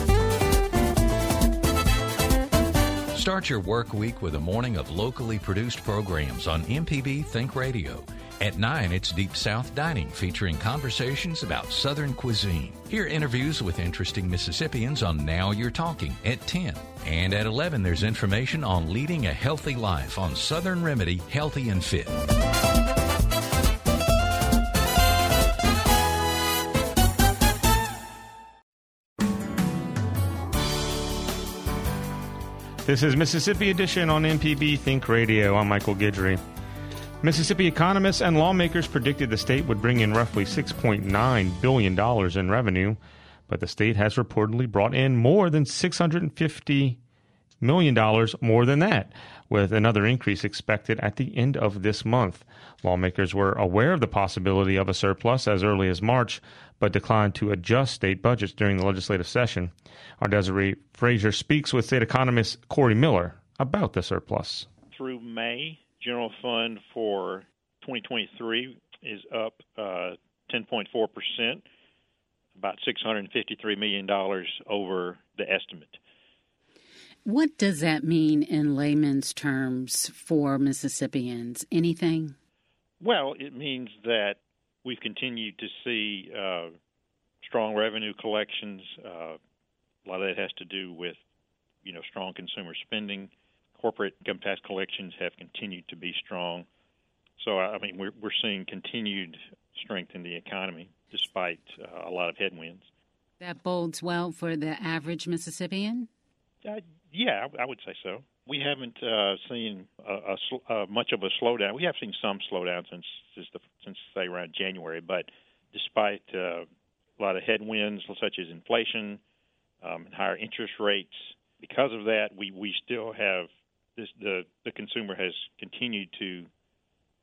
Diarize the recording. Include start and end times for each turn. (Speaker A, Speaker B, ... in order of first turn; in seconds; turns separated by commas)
Speaker A: 3.1-22.2, Speaker B: 32.9-36.4, Speaker B: 37.2-47.0, Speaker B: 47.6-64.7, Speaker C: 64.9-71.6, Speaker C: 72.6-76.0, Speaker D: 77.2-82.4, Speaker C: 83.0-86.8, Speaker C: 87.4-89.4, Speaker C: 90.0-91.2, Speaker C: 91.8-96.7, Speaker C: 97.4-102.9, Speaker D: 103.4-106.1, Speaker C: 106.6-116.7, Speaker C: 117.2-119.2, Speaker C: 119.8-126.5